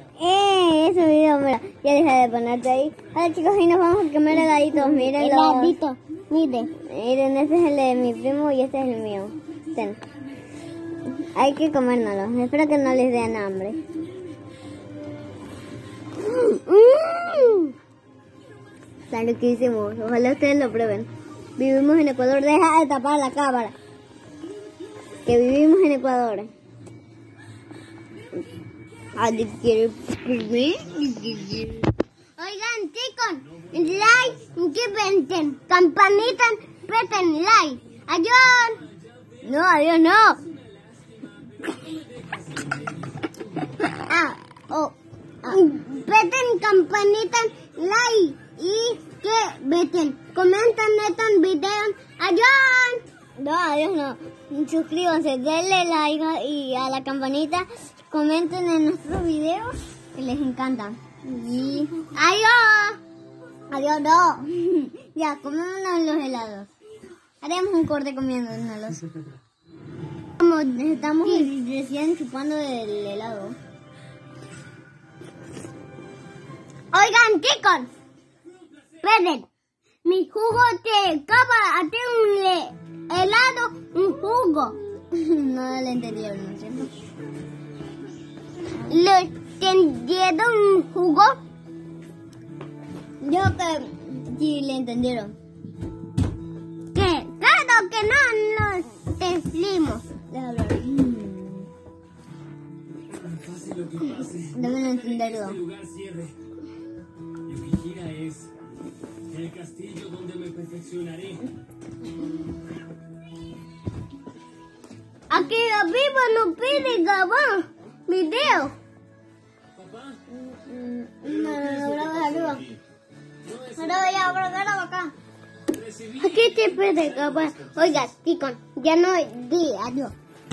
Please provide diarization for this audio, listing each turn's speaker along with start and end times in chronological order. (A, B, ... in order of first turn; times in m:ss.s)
0:00.2-0:05.8 A
0:04.4-0:06.7 B
0:06.8-0:10.0 A
0:11.2-0:13.8 A
0:16.2-0:17.8 B
0:19.1-0:23.8 A
0:25.2-0:26.5 A
0:29.2-0:31.9 A
0:32.4-0:38.8 B
0:39.4-0:40.4 A
0:43.8-0:45.6 A
0:45.5-0:53.0 B
0:53.4-1:02.0 A
1:02.1-1:03.0 B
1:03.7-1:06.7 A
1:07.4-1:09.0 A
1:10.4-1:11.5 B
1:10.7-1:13.6 A
1:16.9-1:17.9 B
1:19.0-1:19.5 B
1:20.0-1:24.8 B
1:25.1-1:26.9 A
1:28.9-1:31.4 B
1:33.2-1:35.3 A
1:36.9-1:40.1 B
1:40.3-1:41.7 A
1:43.2-1:44.6 C
1:44.5-1:45.6 A
1:45.6-1:46.4 C
1:47.5-1:48.5 C
1:49.3-1:51.4 C
1:55.3-1:58.8 B
1:59.8-2:00.2 C
2:00.3-2:02.7 A
2:03.5-2:04.2 C
2:03.8-2:05.1 A
2:03.8-2:05.0 B
2:05.8-2:06.1 C
2:06.2-2:10.1 B